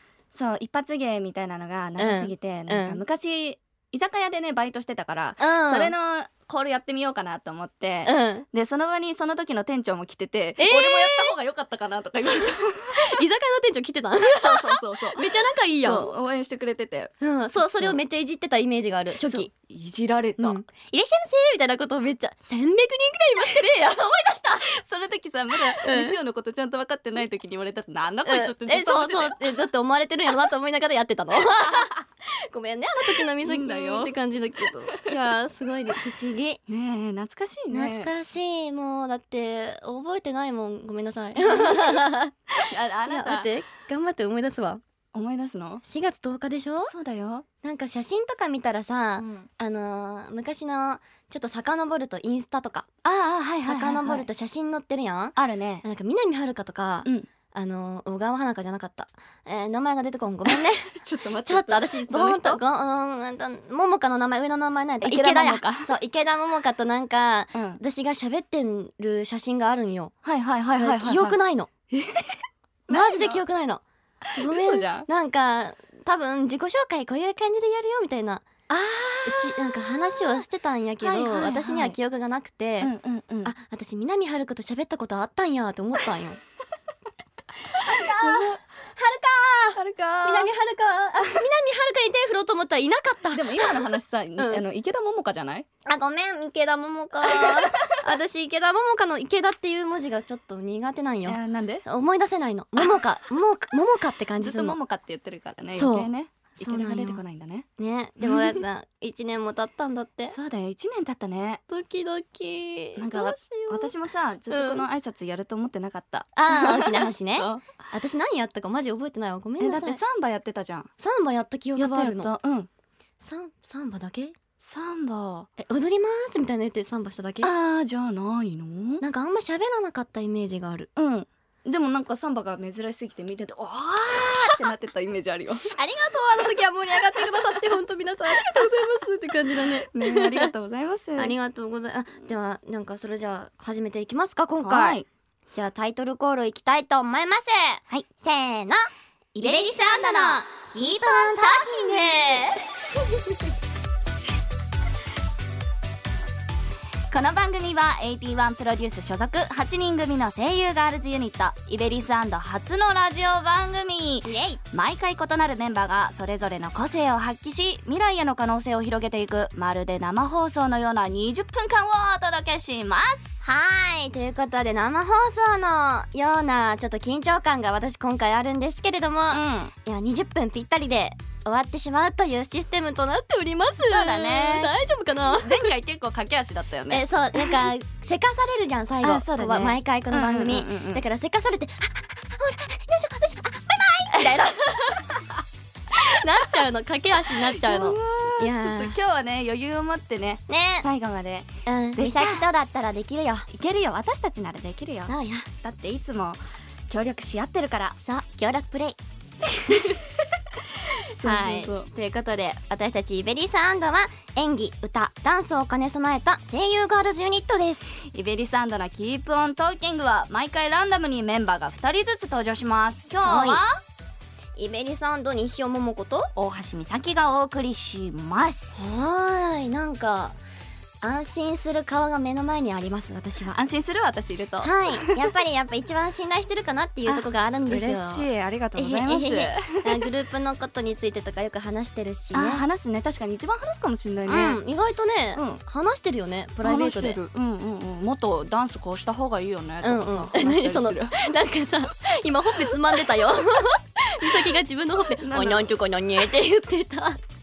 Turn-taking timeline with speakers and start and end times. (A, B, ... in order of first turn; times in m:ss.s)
0:00.3-0:13.2 A
0:02.0-0:03.0 B
0:05.4-0:05.9 B
0:08.0-0:08.5 B
0:10.6-0:11.4 B
0:13.0-0:16.1 B
0:14.3-0:18.0 A
0:17.2-0:19.5 B
0:19.2-0:20.6 A
0:20.4-0:24.6 B
0:23.5-0:24.0 A
0:24.6-0:29.5 A
0:25.8-0:26.2 B
0:28.2-0:36.6 B
0:33.4-0:34.1 A
0:36.7-0:38.1 A
0:37.7-0:42.4 B
0:41.4-0:42.0 A
0:42.6-0:43.5 A
0:43.1-0:44.8 B
0:45.1-0:45.8 A
0:45.8-0:46.9 B
0:46.9-0:47.4 A
0:47.6-0:52.9 B
0:49.2-0:49.5 A
0:53.0-0:54.3 A
0:53.6-1:10.1 B
0:55.4-0:55.8 A
1:00.5-1:02.6 A
1:05.0-1:05.9 A
1:07.5-1:07.8 A
1:10.2-1:11.4 A
1:10.8-1:11.7 B
1:11.9-1:13.4 A
1:12.9-1:13.8 B
1:14.4-1:15.1 A
1:14.4-1:18.4 B
1:18.7-1:20.4 A
1:19.3-1:22.9 B
1:21.0-1:22.0 A
1:22.8-1:23.5 A
1:23.4-1:26.4 B
1:27.8-1:33.8 B
1:28.2-1:28.6 A
1:29.8-1:30.5 A
1:33.3-1:35.6 A
1:34.4-1:34.6 B
1:35.9-1:44.8 B
1:37.3-1:37.8 A
1:41.3-1:41.8 A
1:44.4-1:47.7 A
1:45.7-1:47.2 B
1:47.8-1:50.4 B
1:48.2-1:48.6 A
1:50.2-1:51.6 A
1:51.7-1:53.9 B
1:53.0-1:57.6 A
1:54.5-1:54.9 B
1:56.4-2:00.0 B
1:59.6-2:00.9 A
2:01.0-2:02.3 B
2:01.8-2:02.7 A
2:03.2-2:04.3 B
2:04.6-2:05.5 A
2:05.6-2:07.5 B
2:07.4-2:09.0 A
2:09.0-2:10.9 B
2:11.0-2:15.6 A
2:15.7-2:20.5 B
2:17.2-2:17.7 A
2:18.3-2:18.9 A
2:19.9-2:21.4 A
2:21.2-2:25.0 B
2:24.6-2:25.1 A
2:25.5-2:28.9 B
2:29.4-2:32.0 A
2:29.4-2:32.6 B
2:37.1-2:53.4 A
2:44.2-2:44.6 B
2:53.4-3:05.7 B
2:59.3-2:59.7 A
3:03.9-3:07.7 A
3:06.9-3:15.0 B
3:09.0-3:11.0 A
3:15.9-3:19.0 B
3:17.6-3:22.4 A
3:20.5-3:20.9 B
3:21.7-3:23.5 B
3:23.5-3:28.0 A
3:25.1-3:25.5 B
3:28.0-3:29.0 B
3:31.2-3:31.9 A
3:31.2-3:37.9 B
3:38.1-3:43.8 A
3:43.1-3:43.6 B
3:44.6-3:46.3 B
3:46.4-3:48.8 A
3:48.8-3:50.4 B
3:51.0-3:53.6 B
3:53.5-3:55.2 A
3:54.6-4:02.6 B
3:57.1-4:00.0 A
4:02.3-4:04.6 A
4:04.3-4:07.2 B
4:05.4-4:05.6 A
4:06.6-4:11.3 A
4:09.8-4:17.2 B
4:15.2-4:15.7 A